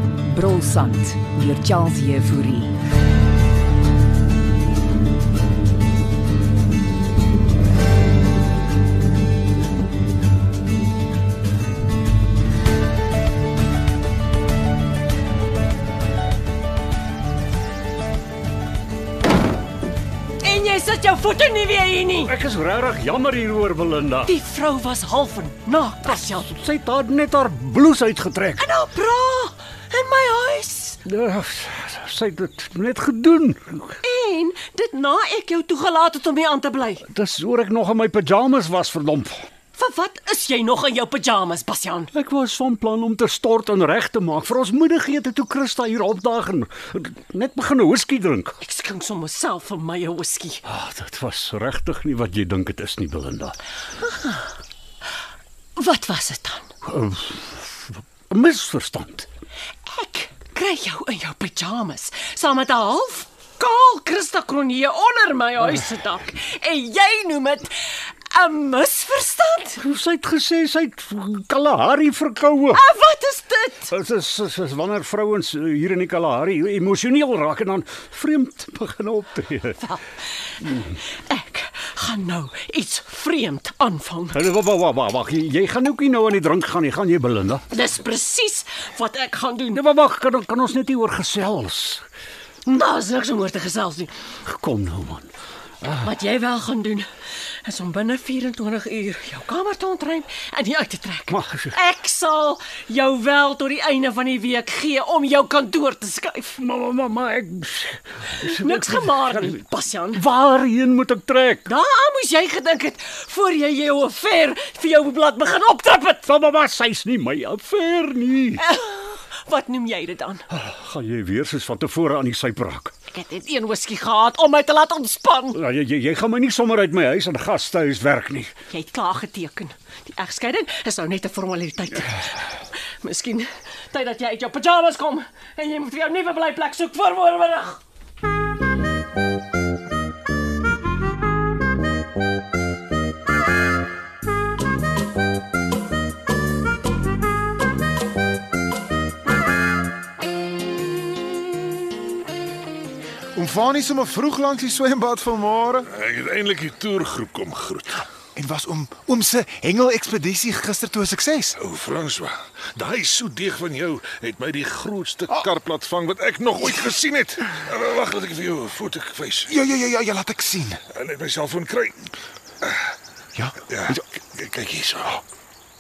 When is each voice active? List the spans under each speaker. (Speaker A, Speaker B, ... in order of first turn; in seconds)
Speaker A: 0.2-2.7
Speaker B: 20.4-22.4, 24.3-26.5, 28.6-31.0, 34.0-37.1, 39.8-42.1, 48.6-50.6, 54.0-54.5, 55.8-56.7, 59.9-69.8, 72.7-73.9, 80.6-84.4, 87.7-89.8, 92.7-94.3, 96.0-97.1, 97.6-106.6, 108.4-110.2, 111.7-116.3, 118.6-120.5, 123.1-125.6, 128.7-137.8
Speaker C: 22.3-24.3, 26.4-28.6, 31.1-34.0, 37.0-39.4, 42.1-48.6, 50.7-53.6, 56.8-59.3, 69.8-72.8, 73.9-79.8, 84.3-87.6, 89.7-92.0, 94.4-95.3, 101.3-101.8, 106.6-109.5, 110.2-111.7, 116.3-118.6, 120.5-122.9, 125.5-128.5
Speaker D: 153.3-155.9, 158.3-161.6, 169.5-170.8, 173.3-174.1
Speaker E: 155.9-158.1, 161.6-169.5, 170.9-172.1, 173.7-175.2